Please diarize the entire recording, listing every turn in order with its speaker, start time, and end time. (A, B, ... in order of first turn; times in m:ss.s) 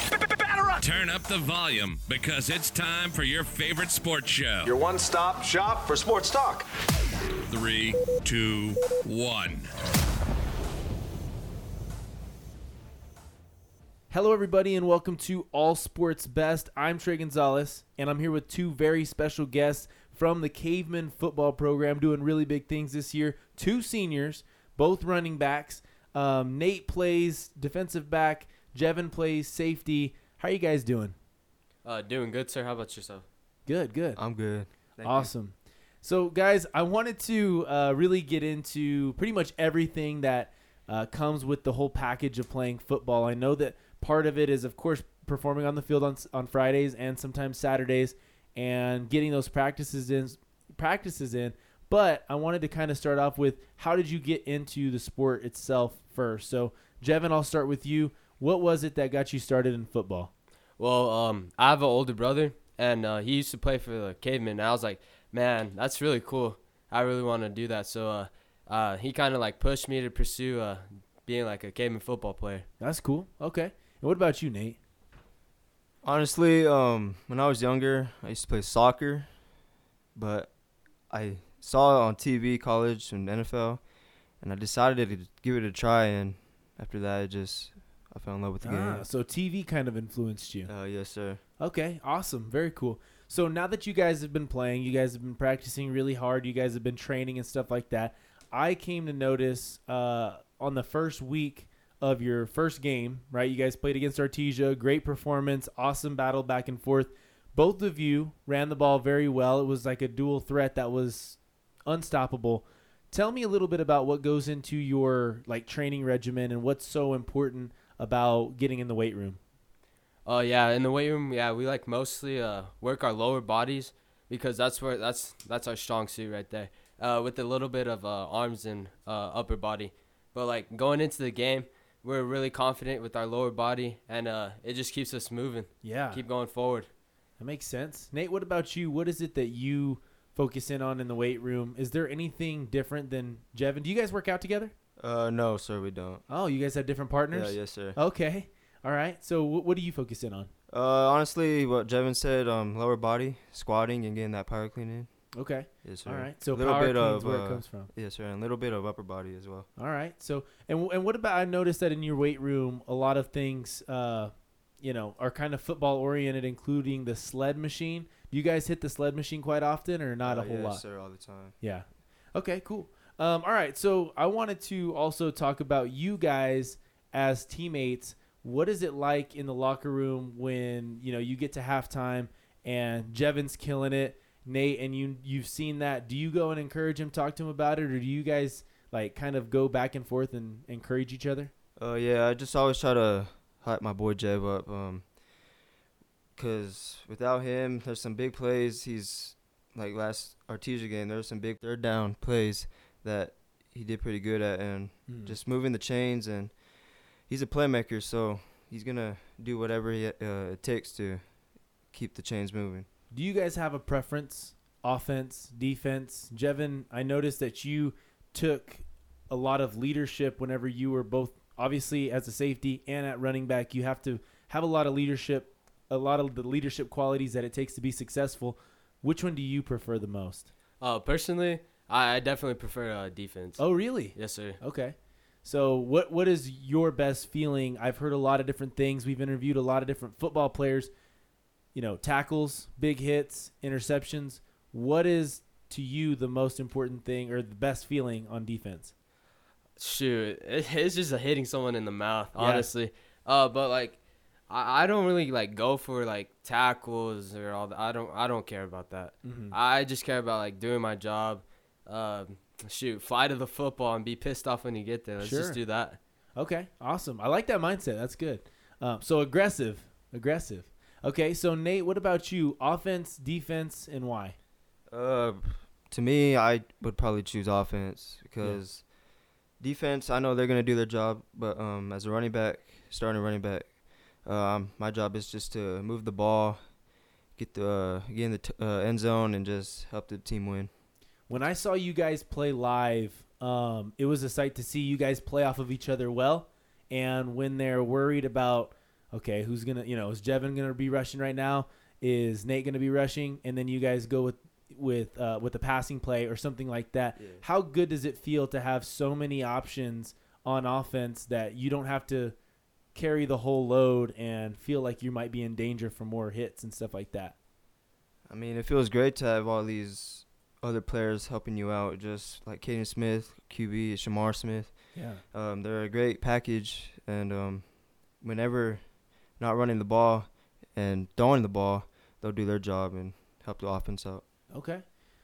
0:00.8-0:04.7 A
0:04.7-0:06.7 B
0:07.4-0:09.7 A
0:14.1-0:31.2 C
0:31.8-0:33.3 D
0:33.7-0:34.2 C
0:34.2-0:35.3 E
0:35.0-1:00.3 C
1:00.8-1:12.7 D
1:12.8-1:14.8 C
1:16.0-1:19.3 E
1:20.2-1:20.5 E
1:21.1-1:23.8 E
1:24.4-1:29.0 E
1:28.6-1:30.7 C
1:30.7-1:31.4 E
1:31.6-1:59.4 C
2:00.3-2:16.9 D
2:15.8-2:16.2 C
2:17.4-2:24.7 C
2:25.0-2:26.2 E
2:26.3-2:30.5 C
2:27.3-2:28.0 E
2:30.7-2:35.1 E
2:35.3-2:37.9 C
2:35.8-2:39.7 E
2:39.8-2:50.8 C
2:50.2-2:51.6 E
2:51.6-3:11.5 C
3:11.8-3:15.0 E
3:16.4-3:26.5 E
3:25.1-3:25.4 C
3:27.3-3:31.2 E
3:31.9-3:32.9 E
3:33.1-3:50.5 C
3:50.8-3:54.6 D
3:53.6-4:00.9 C
4:01.7-4:08.9 C
4:09.8-4:26.0 D
4:12.4-4:12.7 C
4:19.2-4:19.6 C
4:25.2-4:25.6 C
4:26.4-4:34.4 C
4:34.9-4:38.8 E
4:39.6-4:43.7 E
4:44.2-4:46.6 E
4:47.4-4:50.7 E
4:51.3-5:12.4 C
5:07.2-5:07.4 E
5:12.9-5:17.4 C
5:18.3-5:24.7 E
5:25.0-5:25.2 C
5:25.3-5:27.6 E
5:28.2-5:28.8 E
5:29.4-5:34.2 E
5:34.5-5:34.8 C